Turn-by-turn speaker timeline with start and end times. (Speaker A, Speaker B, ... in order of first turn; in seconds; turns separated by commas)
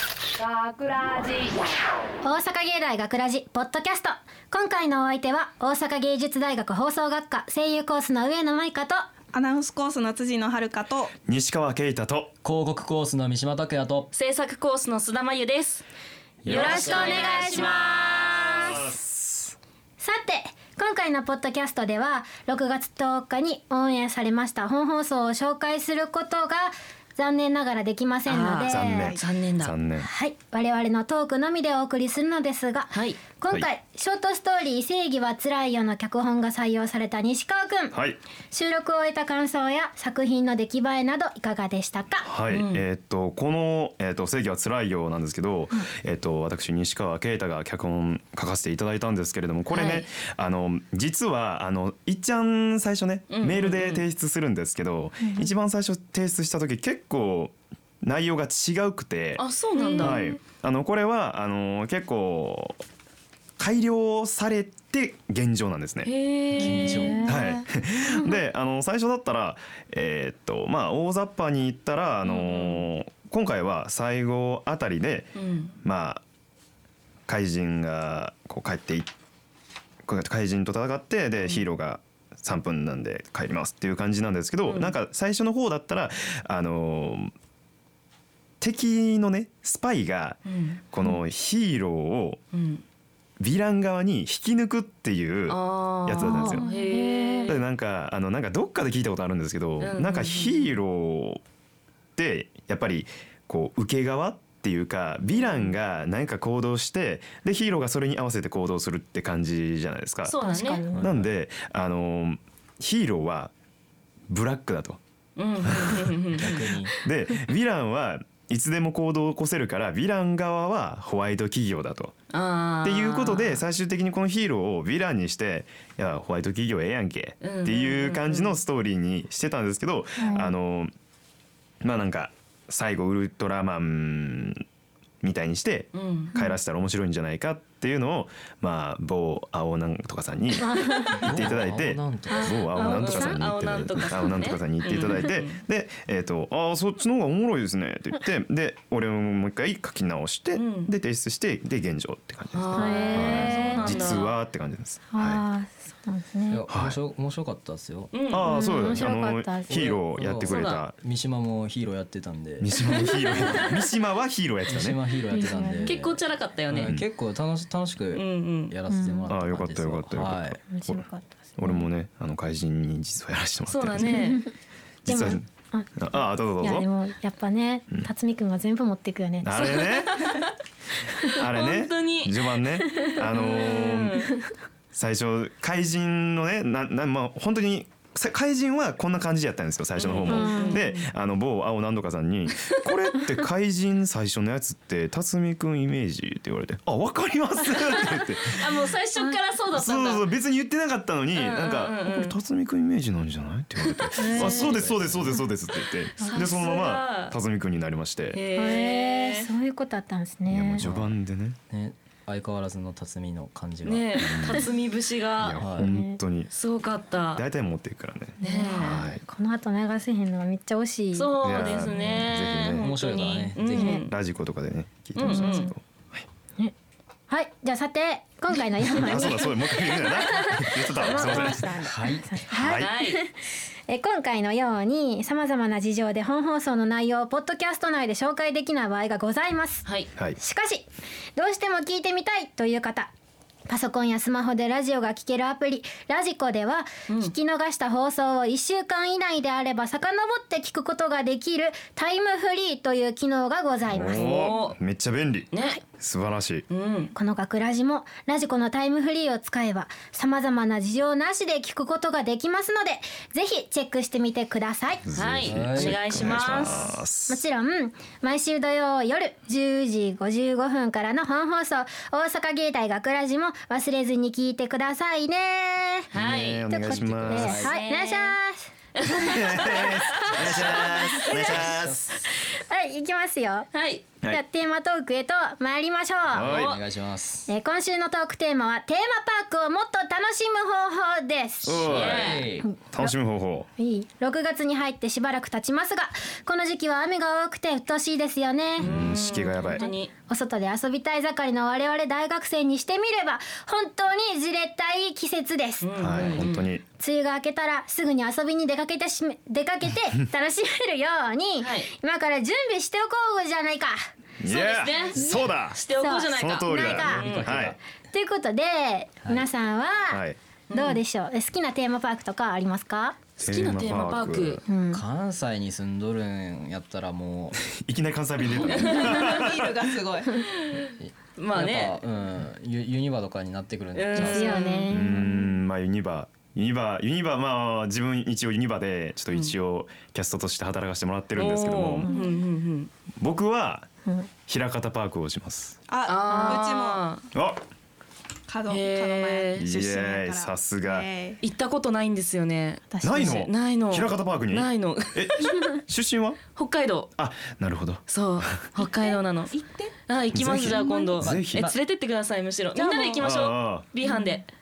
Speaker A: 0.4-1.5, Speaker B: 2.2-9.0, Speaker C: 9.3-11.1, Speaker D: 11.2-12.3, Speaker E: 12.4-14.1, Speaker A: 14.1-15.8, Speaker D: 16.4-17.8, Speaker A: 16.4-18.7, Speaker B: 16.4-18.8, Speaker D: 18.4-19.6, Speaker B: 20.0-29.1, Speaker A: 28.2-29.7, Speaker D: 28.7-30.1, Speaker C: 28.8-29.2, Speaker B: 30.0-38.0, Speaker A: 32.9-33.2, Speaker D: 37.9-38.2, Speaker B: 38.5-42.2, Speaker D: 42.2-59.4, Speaker A: 42.5-42.8, Speaker A: 49.7-50.1, Speaker A: 53.3-54.0, Speaker B: 55.2-55.5, Speaker A: 59.4-60.2, Speaker B: 59.8-60.4, Speaker D: 60.0-62.8, Speaker D: 63.6-66.1, Speaker A: 66.0-67.4, Speaker E: 66.5-67.4, Speaker B: 66.6-68.3, Speaker D: 67.2-76.2, Speaker A: 72.2-72.8, Speaker A: 75.3-75.8, Speaker D: 77.3-79.1, Speaker D: 80.0-87.3, Speaker A: 84.7-84.9, Speaker D: 88.6-92.4, Speaker A: 90.5-90.8, Speaker A: 92.5-92.8, Speaker D: 93.4-96.7, Speaker A: 95.5-97.6, Speaker B: 96.2-97.5, Speaker D: 97.4-101.4, Speaker A: 99.8-100.7, Speaker D: 102.1-110.3, Speaker A: 105.3-105.7, Speaker A: 110.2-110.8, Speaker B: 110.4-111.1, Speaker E: 110.9-111.3, Speaker D: 111.0-113.5, Speaker D: 114.3-115.0, Speaker A: 115.4-116.8, Speaker D: 115.6-116.5, Speaker E: 116.4-116.9, Speaker D: 117.0-122.1, Speaker A: 122.3-123.6, Speaker D: 122.8-130.9, Speaker A: 127.4-128.6, Speaker B: 130.2-130.5, Speaker D: 131.8-134.6, Speaker D: 135.2-155.4, Speaker A: 135.9-136.3, Speaker B: 140.6-141.3, Speaker E: 141.2-142.5, Speaker B: 142.3-143.4, Speaker A: 142.7-145.6, Speaker A: 150.5-150.9, Speaker A: 152.5-154.3, Speaker B: 152.7-154.2, Speaker E: 153.1-153.9, Speaker B: 155.1-156.6, Speaker E: 156.5-158.1, Speaker D: 156.7-156.9, Speaker A: 158.1-158.7, Speaker D: 158.3-160.9, Speaker B: 158.4-159.8, Speaker E: 159.7-163.7, Speaker A: 160.4-160.8, Speaker D: 162.6-165.0, Speaker A: 162.8-163.6, Speaker E: 164.7-166.2, Speaker B: 165.3-165.9, Speaker A: 165.8-166.9, Speaker E: 166.7-170.6, Speaker A: 168.1-168.7, Speaker B: 168.9-169.3, Speaker D: 169.3-171.0, Speaker B: 170.7-171.8, Speaker D: 171.6-174.3, Speaker A: 173.7-174.4, Speaker B: 174.1-174.4, Speaker D: 175.0-175.4, Speaker B: 175.1-179.7, Speaker D: 175.9-176.9, Speaker D: 179.4-180.4, Speaker A: 179.5-180.5, Speaker D: 181.2-184.3, Speaker A: 181.3-184.3, Speaker D: 184.9-198.7, Speaker A: 190.0-191.1, Speaker B: 190.2-190.8, Speaker A: 198.4-200.2, Speaker D: 199.7-208.4, Speaker A: 201.3-202.3, Speaker B: 204.2-204.8, Speaker E: 204.2-205.4, Speaker B: 206.2-206.4, Speaker A: 206.2-207.3, Speaker A: 208.3-209.5, Speaker B: 208.5-210.9, Speaker D: 210.5-211.6, Speaker E: 210.8-211.1, Speaker E: 211.7-214.4, Speaker A: 213.8-215.6, Speaker D: 214.2-214.6, Speaker D: 215.4-216.5, Speaker E: 215.5-215.9, Speaker B: 215.8-216.2, Speaker A: 216.5-217.4, Speaker D: 217.3-219.2, Speaker B: 218.4-221.3, Speaker A: 218.4-219.1, Speaker A: 221.1-224.1, Speaker D: 221.4-222.9, Speaker E: 222.2-224.0, Speaker B: 223.8-224.0, Speaker D: 224.0-226.2, Speaker A: 225.2-225.7, Speaker B: 225.2-225.7, Speaker B: 227.3-239.8, Speaker D: 228.8-231.7, Speaker A: 231.0-231.6, Speaker E: 231.6-232.4, Speaker D: 232.5-232.9, Speaker A: 232.6-233.2, Speaker B: 240.4-243.1, Speaker B: 243.7-254.5, Speaker D: 253.9-256.6, Speaker A: 254.1-254.8, Speaker A: 255.5-255.8, Speaker A: 256.7-257.1, Speaker B: 257.1-265.0, Speaker D: 265.0-267.4, Speaker A: 265.1-266.9, Speaker E: 265.4-266.4, Speaker B: 267.3-276.1, Speaker A: 276.1-276.6, Speaker D: 276.1-277.6, Speaker E: 276.1-277.8, Speaker B: 276.7-278.7, Speaker A: 277.5-278.3, Speaker A: 278.9-281.4, Speaker D: 279.0-282.0, Speaker B: 279.3-281.7, Speaker E: 280.4-282.2, Speaker B: 282.4-283.7, Speaker A: 283.7-284.0, Speaker B: 284.2-286.5, Speaker E: 286.3-287.5, Speaker D: 286.3-286.8, Speaker A: 286.4-286.8, Speaker B: 287.5-292.0, Speaker D: 291.6-293.7, Speaker A: 291.8-292.5, Speaker E: 291.9-292.7, Speaker B: 292.6-293.1, Speaker B: 293.8-298.9, Speaker A: 298.8-300.1, Speaker D: 298.8-299.8, Speaker B: 299.8-306.4, Speaker A: 305.8-306.7, Speaker D: 306.0-306.8, Speaker B: 307.0-314.0, Speaker A: 311.6-311.9, Speaker D: 314.4-315.8, Speaker A: 314.4-317.6, Speaker B: 315.1-317.2, Speaker D: 316.3-317.7, Speaker E: 317.0-317.8, Speaker B: 318.1-320.2, Speaker D: 320.1-320.4, Speaker A: 320.7-321.0, Speaker B: 320.7-323.2, Speaker A: 323.4-324.6, Speaker D: 323.4-324.6, Speaker B: 324.7-325.0, Speaker E: 324.9-327.6, Speaker D: 327.8-329.9, Speaker A: 328.6-329.3, Speaker C: 328.7-330.4, Speaker A: 330.4-332.0, Speaker E: 331.0-334.7, Speaker A: 333.9-335.0, Speaker B: 334.1-335.3, Speaker D: 334.9-342.1, Speaker A: 341.3-342.9, Speaker B: 342.0-342.4, Speaker D: 343.2-343.9, Speaker D: 344.5-345.8, Speaker C: 345.9-347.1, Speaker A: 346.1-347.2, Speaker B: 346.3-346.6, Speaker D: 347.3-347.6, Speaker C: 348.5-351.4, Speaker A: 348.7-349.6, Speaker D: 349.6-351.1, Speaker A: 351.4-355.6, Speaker B: 352.9-353.4, Speaker D: 353.0-356.4, Speaker A: 356.6-357.1, Speaker D: 357.2-358.7, Speaker A: 358.1-359.5, Speaker C: 359.5-359.9, Speaker A: 360.1-364.5, Speaker D: 360.3-361.7, Speaker C: 360.6-361.2, Speaker E: 361.2-361.8, Speaker B: 362.8-363.2, Speaker C: 362.9-363.2, Speaker D: 363.2-363.9, Speaker B: 364.0-364.4